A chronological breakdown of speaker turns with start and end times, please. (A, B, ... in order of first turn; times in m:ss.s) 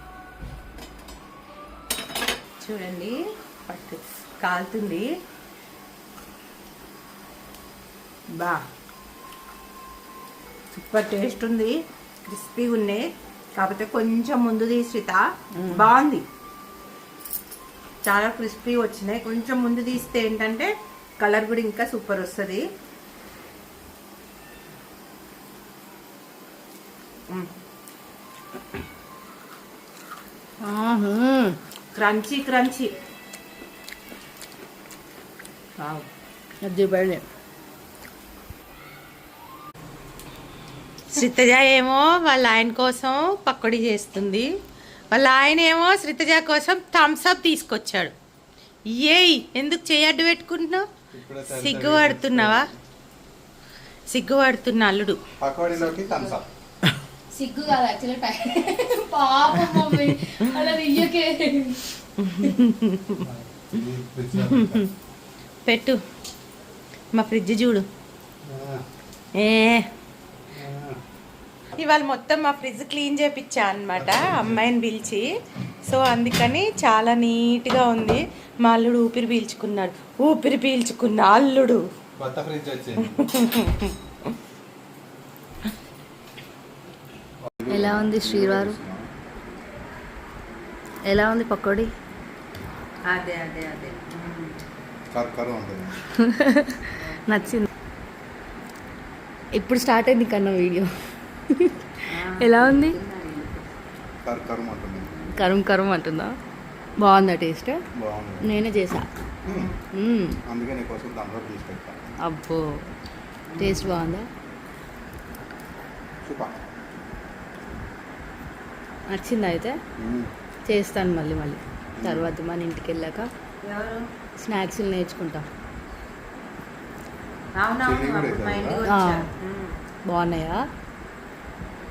0:02.6-0:05.1 A
0:08.3-0:08.6 A
0:10.7-0:13.0 A
0:13.6-0:16.2 A
0:15.6-0:15.8 B
0:18.0-0:22.6 A
0:30.6-0:31.5 B
0:31.9-0:32.9 A
0:35.8-0:36.0 A
0:36.6-0:37.2 B
0:41.1-0:44.5 A
0:45.1-0:48.1 A
0:48.9-0:50.8 A
0:51.1-0:52.7 C
0:51.5-0:52.7 A
0:54.1-0:55.2 A
0:55.4-0:56.5 C
0:55.7-0:56.4 B
0:57.3-1:01.8 B
1:02.2-1:03.2 A
1:03.2-1:04.8 C
1:04.5-1:04.9 A
1:05.6-1:06.0 A
1:07.1-1:07.8 A
1:08.4-1:08.8 C
1:09.4-1:09.8 A
1:10.5-1:11.0 C
1:11.8-1:15.3 A
1:13.9-1:14.6 C
1:15.9-1:21.8 A
1:22.2-1:23.2 C
1:23.2-1:23.9 A
1:27.5-1:29.1 C
1:27.7-1:28.8 B
1:31.1-1:31.9 B
1:33.1-1:34.5 A
1:35.1-1:36.0 C
1:36.2-1:37.6 B
1:37.1-1:37.5 A
1:39.6-1:40.9 B
1:42.1-1:43.6 A
1:42.4-1:43.0 B
1:44.2-1:45.1 C
1:45.3-1:46.3 B
1:47.0-1:47.8 B
1:48.0-1:48.5 C
1:48.4-1:49.1 B
1:49.4-1:49.7 C
1:49.5-1:49.7 A
1:49.9-1:50.4 B
1:50.4-1:52.1 C
1:52.2-1:52.8 B
1:53.5-1:53.9 A
1:53.6-1:54.3 B
1:56.2-1:56.6 C
1:59.1-1:59.7 B
2:00.0-2:00.3 C
2:00.7-2:03.3 B
2:02.0-2:02.3 C
2:03.6-2:04.0 A
2:04.4-2:05.4 B
2:07.6-2:09.7 A
2:07.8-2:08.8 C
2:08.8-2:09.3 B
2:10.1-2:10.6 B